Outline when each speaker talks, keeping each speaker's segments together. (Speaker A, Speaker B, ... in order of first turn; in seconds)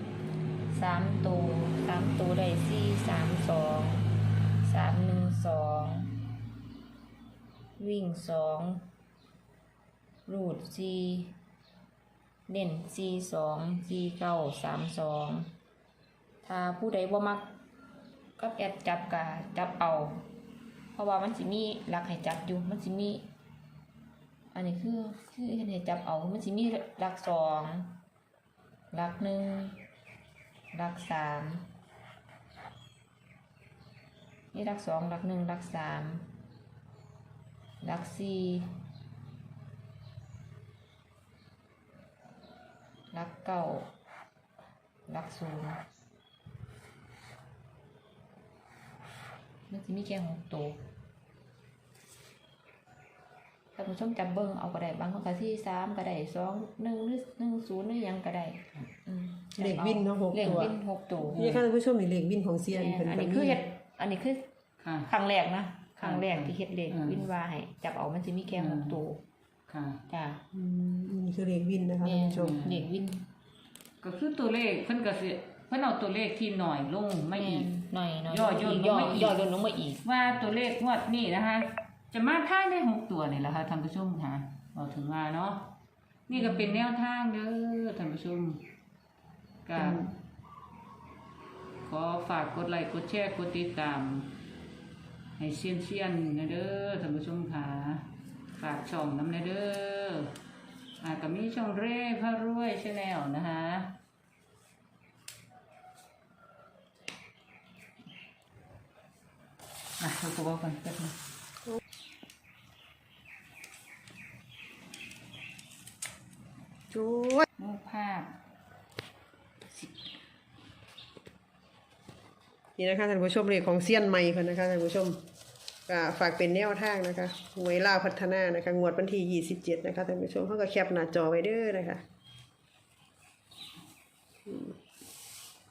Speaker A: 0.7-6.1, 7.8-8.9, 10.3-11.3, 12.5-15.5, 16.4-17.5, 18.4-20.2, 20.9-23.2, 24.5-28.0, 28.9-29.8, 30.7-31.7, 34.5-36.3, 37.8-38.8, 43.1-43.9, 45.1-45.8, 49.7-50.8, 53.7-61.4, 62.7-64.5, 65.0-69.2, 70.1-70.4, 72.0-73.3, 77.3-80.0, 86.5-86.8
Speaker B: 59.6-60.7, 61.3-63.6, 70.5-72.6, 89.8-90.1, 116.9-117.5, 122.8-125.2, 125.9-132.0, 134.5-134.7
Speaker C: 61.3-61.6, 64.8-65.1, 66.0-67.2, 68.5-69.0, 69.7-70.0, 72.3-72.9, 74.0-77.7, 78.3-79.4, 80.0-85.8, 86.3-88.6, 89.7-90.1, 91.8-94.3, 95.4-100.3, 101.0-104.0, 110.0-111.2, 117.6-118.3